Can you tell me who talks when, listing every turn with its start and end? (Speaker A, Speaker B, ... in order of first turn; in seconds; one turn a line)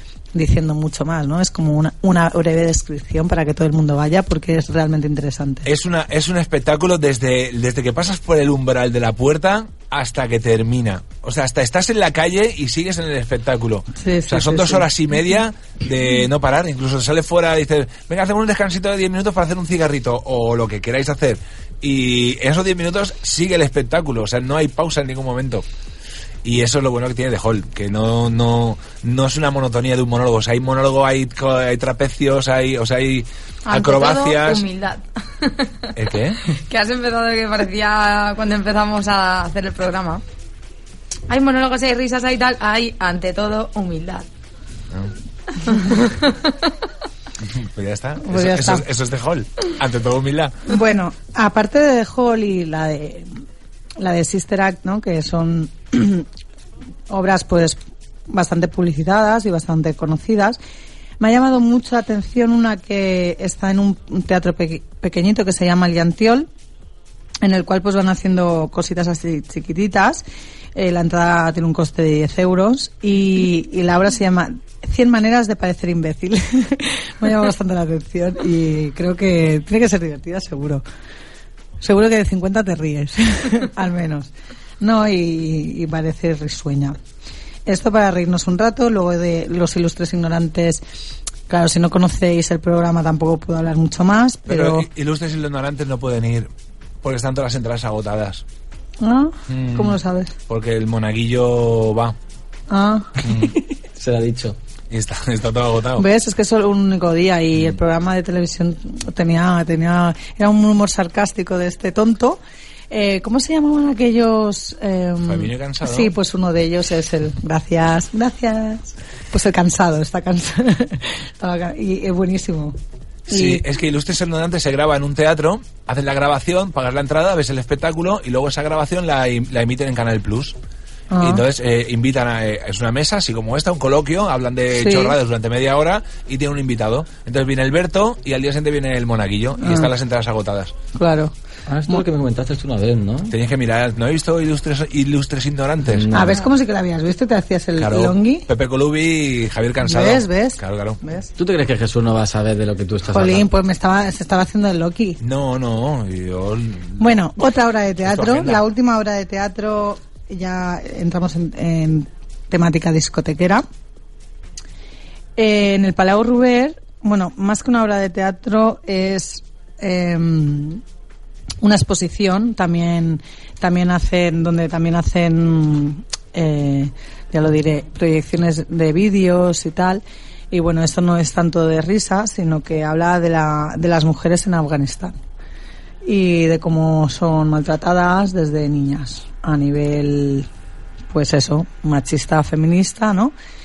Speaker A: 0.3-5.7
Speaker B: 5.6-25.6
Speaker A: 13.9-14.9
Speaker B: 26.4-34.6
Speaker C: 33.6-35.9
Speaker B: 35.9-36.4
Speaker C: 36.5-40.2
Speaker C: 41.3-44.2
Speaker C: 45.6-46.5
Speaker B: 47.4-50.7
Speaker A: 48.2-48.9
Speaker A: 50.7-53.3
Speaker A: 54.0-56.2
Speaker A: 57.1-57.8
Speaker A: 58.3-60.6
Speaker A: 61.2-66.5
Speaker A: 67.4-80.8
Speaker A: 81.8-87.0
Speaker A: 87.7-90.8
Speaker A: 91.5-94.8
Speaker B: 94.5-96.5
Speaker B: 97.0-98.4
Speaker A: 99.0-100.3
Speaker B: 99.5-102.2
Speaker A: 102.7-103.2
Speaker B: 103.2-103.5
Speaker D: 104.0-104.6
Speaker B: 104.9-106.0
Speaker A: 106.0-122.8
Speaker B: 115.2-116.1
Speaker B: 123.3-130.6
Speaker A: 123.3-123.6
Speaker A: 131.1-131.4
Speaker B: 131.2-140.8
Speaker A: 134.7-135.2
Speaker A: 139.6-139.9
Speaker A: 140.9-141.3
Speaker D: 141.7-143.3
Speaker B: 143.3-146.2
Speaker D: 145.9-146.4
Speaker A: 146.1-148.5
Speaker B: 147.8-151.0
Speaker A: 149.8-151.3
Speaker D: 151.4-153.5
Speaker A: 153.1-155.2
Speaker B: 155.2-157.2
Speaker A: 157.0-163.6
Speaker B: 158.0-158.6
Speaker A: 165.4-170.8
Speaker A: 171.6-185.2
Speaker A: 186.0-190.5
Speaker A: 191.1-193.3